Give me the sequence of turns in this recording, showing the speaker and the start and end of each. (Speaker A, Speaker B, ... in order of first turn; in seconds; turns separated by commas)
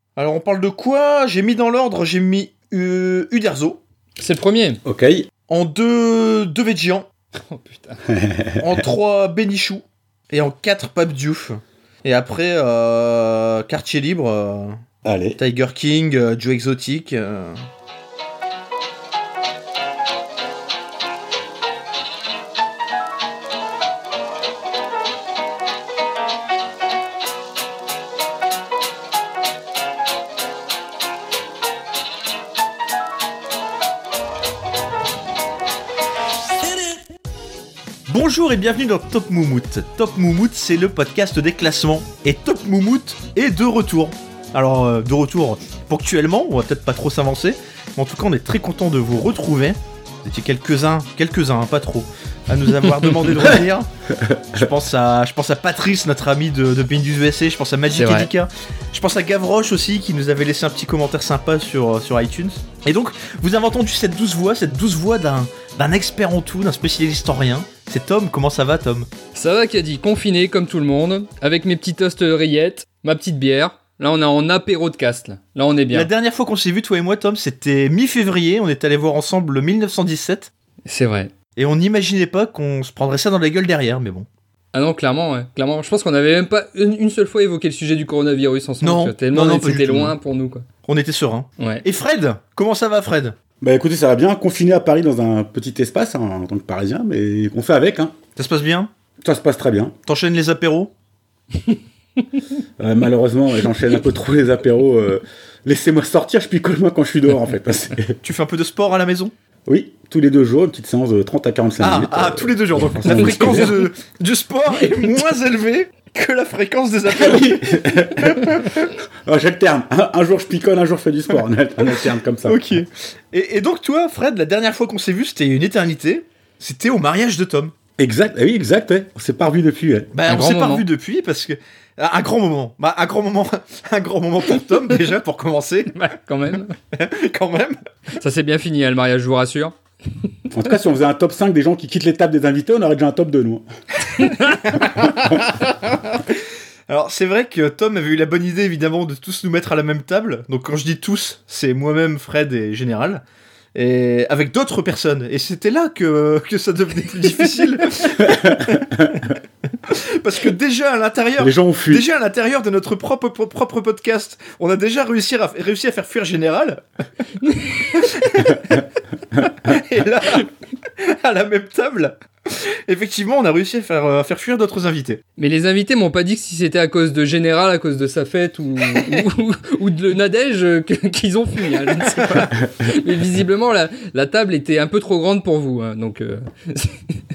Speaker A: 0.1-3.8, Speaker B: 4.2-4.8, Speaker C: 4.8-5.3, Speaker A: 5.5-7.1, Speaker B: 7.4-8.0, Speaker C: 8.1-8.8, Speaker A: 8.6-14.8, Speaker C: 15.0-15.4, Speaker A: 15.4-17.6, Speaker A: 38.1-53.9, Speaker C: 54.1-54.7, Speaker A: 54.5-69.1, Speaker B: 58.0-58.3, Speaker B: 69.3-76.1, Speaker A: 75.9-80.5, Speaker B: 80.9-81.3, Speaker A: 81.6-84.3, Speaker B: 84.7-90.7, Speaker A: 88.8-90.2, Speaker A: 90.8-93.3, Speaker B: 91.6-91.8, Speaker C: 93.6-98.1, Speaker A: 98.3-98.9, Speaker C: 99.2-99.9, Speaker A: 100.1-100.9, Speaker C: 102.8-108.2, Speaker A: 108.2-109.3, Speaker C: 109.7-113.8, Speaker A: 111.8-118.9, Speaker C: 117.1-118.7, Speaker C: 119.2-122.7, Speaker A: 122.4-127.7, Speaker C: 128.0-130.1, Speaker A: 130.1-135.9, Speaker B: 130.3-130.8, Speaker B: 135.9-136.7, Speaker A: 136.9-137.8, Speaker B: 138.2-139.7, Speaker C: 140.5-143.6, Speaker B: 144.1-144.8, Speaker A: 144.6-153.2, Speaker A: 153.7-159.2, Speaker C: 158.2-159.2, Speaker A: 159.9-166.8, Speaker C: 161.4-162.1, Speaker B: 167.5-167.7, Speaker A: 167.8-168.8, Speaker A: 169.6-175.2, Speaker B: 175.4-187.1, Speaker A: 182.1-182.5